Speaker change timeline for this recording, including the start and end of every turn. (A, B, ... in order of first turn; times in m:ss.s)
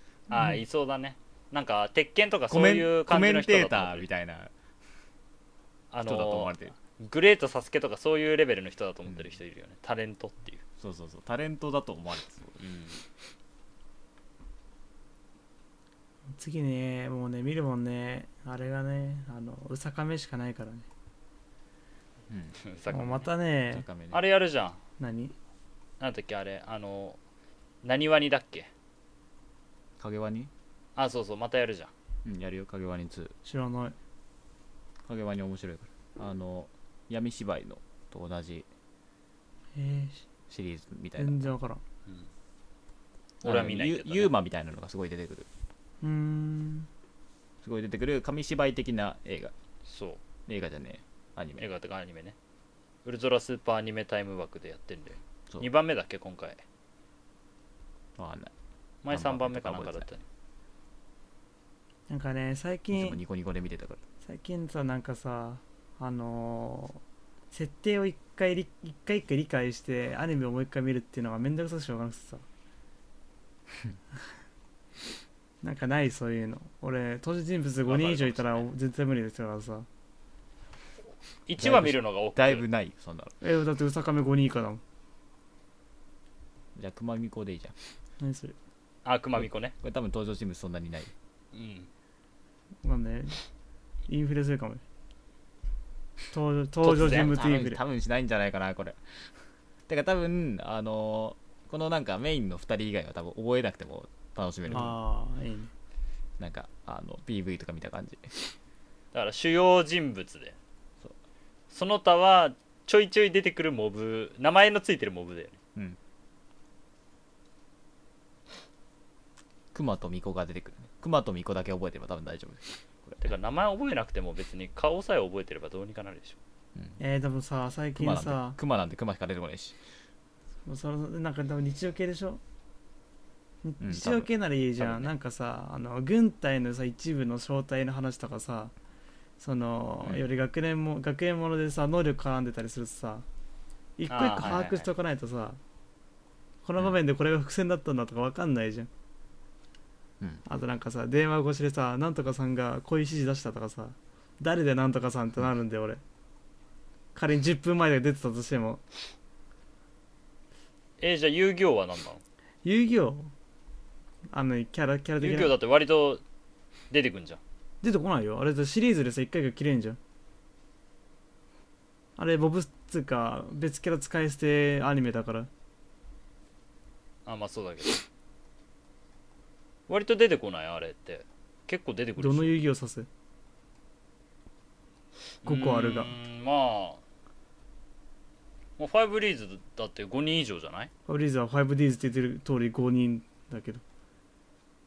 0:00.3-0:04.0 A
0:00.3-0:00.6 B
0:02.5-0:04.5 C
0:05.9-0:10.6 A
0:06.0-0:06.7 C
0:10.8-0:12.6 C
0:12.6-0:13.0 A
0:16.4-0:20.8 B
0:22.3-0:22.6 C
0:22.6-0:23.3 A
0:22.9-0:23.8 B
0:23.7-0:24.2 C
0:24.1-0:24.8 A
0:25.0-0:25.3 B
0:26.0-0:27.2 A
0:27.8-0:28.7 A
0:30.0-0:30.5 C
0:31.0-0:31.9 A
0:32.2-0:33.3 C
0:33.4-0:33.9 B
0:35.0-0:38.6 C
0:39.7-0:40.2 B
0:40.5-0:41.5 C
0:41.2-0:41.8 B
0:43.4-0:44.3 A
0:43.4-0:45.5 C
0:46.0-0:46.9 B
0:47.6-0:49.5 C
0:49.8-0:50.2 A
0:50.5-0:51.6 C
0:51.6-0:52.4 A
0:53.0-0:56.6 A
0:58.2-0:58.5 C
0:59.0-1:00.2 A
0:59.1-1:00.0 C
1:02.1-1:03.2 B
1:02.9-1:04.0 C
1:04.2-1:07.0 B
1:07.5-1:12.4 B
1:15.6-1:19.9 B
1:17.8-1:18.7 A
1:21.4-1:22.6 A
1:21.6-1:23.3 C
1:23.4-1:24.8 B
1:26.7-1:27.7 C
1:28.2-1:28.6 B
1:29.0-1:29.7 A
1:29.4-1:31.1 C
1:31.5-1:31.9 A
1:32.8-1:33.4 B
1:34.1-1:34.8 B
1:36.3-1:37.8 B
1:36.8-1:37.3 A
1:36.8-1:39.2 C
1:39.9-1:45.0 C
1:44.7-1:45.7 B
1:46.4-1:48.4 C
1:49.1-1:50.6 A
1:51.7-1:55.6 A
1:59.7-2:03.2 C
2:03.2-2:06.4 A
2:07.0-2:08.6 B
2:08.0-2:09.8 C
2:10.6-2:12.4 B
2:13.6-2:18.7 B
2:13.8-2:15.1 C
2:19.4-2:23.2 B
2:24.0-2:25.6 B
2:24.1-2:24.9 A
2:26.6-2:28.9 B
2:30.4-2:36.0 B
2:37.1-2:38.8 B
2:41.0-2:42.2 A
2:42.6-2:43.3 B
2:44.3-2:45.5 B
2:45.2-2:46.2 A
2:46.9-2:47.4 A
2:47.8-2:50.0 B
2:52.2-2:55.5 B
2:57.2-2:58.0 A
2:59.9-3:02.6 A
3:02.2-3:03.1 B
3:05.4-3:07.0 A
3:05.4-3:06.1 B
3:08.8-3:10.9 A
3:11.1-3:13.8 B